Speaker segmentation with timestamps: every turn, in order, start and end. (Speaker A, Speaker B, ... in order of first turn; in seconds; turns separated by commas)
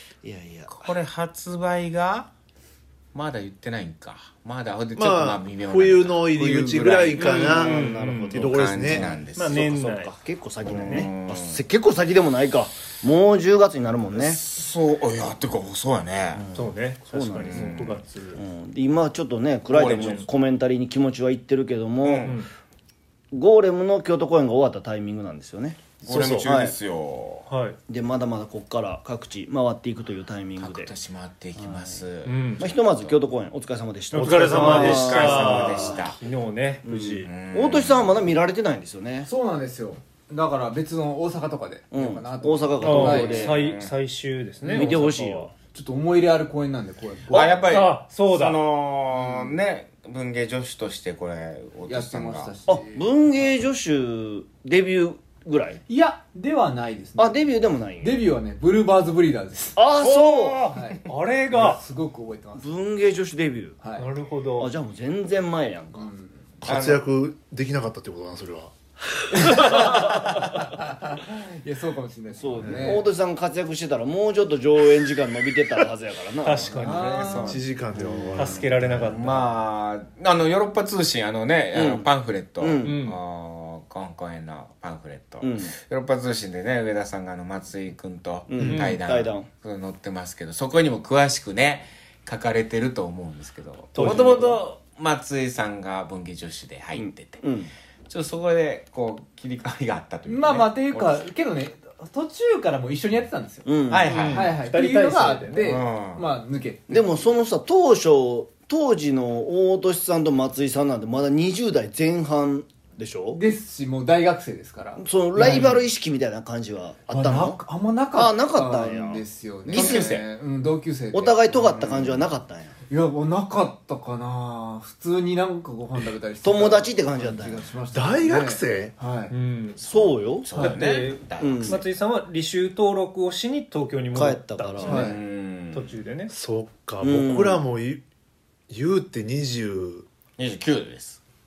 Speaker A: 0.2-0.9, Speaker B: 0.7-2.3, Speaker B: 3.1-9.6, Speaker C: 5.0-9.1, Speaker D: 7.2-8.4, Speaker A: 7.7-14.4, Speaker D: 9.3-10.1, Speaker B: 10.7-11.6, Speaker B: 14.1-16.4, Speaker A: 16.3-22.4, Speaker D: 16.6-18.4, Speaker B: 17.4-17.9, Speaker B: 19.7-20.3, Speaker D: 20.0-20.2, Speaker B: 22.0-22.4, Speaker D: 22.2-22.5, Speaker A: 23.3-26.8, Speaker B: 26.0-27.5, Speaker C: 26.1-26.5, Speaker D: 27.5-27.8, Speaker A: 27.9-30.9, Speaker B: 30.6-33.1, Speaker A: 31.6-32.1, Speaker D: 32.2-32.6, Speaker A: 32.6-35.9, Speaker D: 34.1-37.3, Speaker C: 34.2-35.9, Speaker B: 34.5-36.2, Speaker A: 36.8-39.3, Speaker B: 37.2-38.2, Speaker E: 39.2-43.6, Speaker A: 41.9-43.6, Speaker D: 42.8-45.5, Speaker B: 43.1-43.9, Speaker A: 44.6-45.5, Speaker E: 45.7-47.6, Speaker B: 47.3-52.5, Speaker D: 47.7-48.6, Speaker E: 49.2-49.6, Speaker E: 51.9-53.1, Speaker A: 52.7-55.8, Speaker E: 55.9-59.8, Speaker A: 57.2-58.2, Speaker A: 59.8-60.7, Speaker D: 60.0-61.8, Speaker E: 60.7-62.6, Speaker A: 62.6-63.8, Speaker E: 63.8-64.1, Speaker D: 64.0-64.7, Speaker A: 64.6-66.1, Speaker E: 66.0-66.4, Speaker C: 66.6-68.7, Speaker B: 66.7-67.0, Speaker E: 69.4-73.0, Speaker A: 72.4-76.8, Speaker C: 72.6-72.9, Speaker D: 76.4-77.4, Speaker E: 76.8-77.6, Speaker B: 77.2-77.7, Speaker C: 77.3-79.1, Speaker A: 78.1-78.6, Speaker D: 78.4-79.5, Speaker B: 79.0-97.4, Speaker A: 81.7-83.0, Speaker D: 82.8-83.2, Speaker A: 85.4-85.8, Speaker A: 88.5-89.5, Speaker D: 88.6-89.0, Speaker C: 94.0-94.5, Speaker D: 94.0-94.3, Speaker A: 97.0-97.7, Speaker B: 98.1-101.3, Speaker E: 100.2-107.1, Speaker A: 103.6-104.1, Speaker B: 103.9-104.6, Speaker D: 104.1-105.7, Speaker B: 105.6-106.3, Speaker A: 106.9-113.4, Speaker E: 113.3-115.8, Speaker A: 115.0-117.6, Speaker E: 117.1-121.5, Speaker A: 118.1-120.2, Speaker D: 119.7-120.2, Speaker A: 121.1-122.8, Speaker B: 121.5-122.2, Speaker E: 122.9-129.3, Speaker A: 126.4-127.7, Speaker C: 127.9-128.9, Speaker D: 129.3-129.8, Speaker A: 129.8-130.7, Speaker B: 129.9-131.8, Speaker D: 130.6-135.2, Speaker A: 131.3-131.8, Speaker A: 134.1-135.1, Speaker E: 134.8-135.2, Speaker B: 134.9-135.9, Speaker D: 135.7-136.3, Speaker C: 136.3-138.0, Speaker A: 137.0-137.7, Speaker C: 138.7-140.1, Speaker B: 140.4-141.2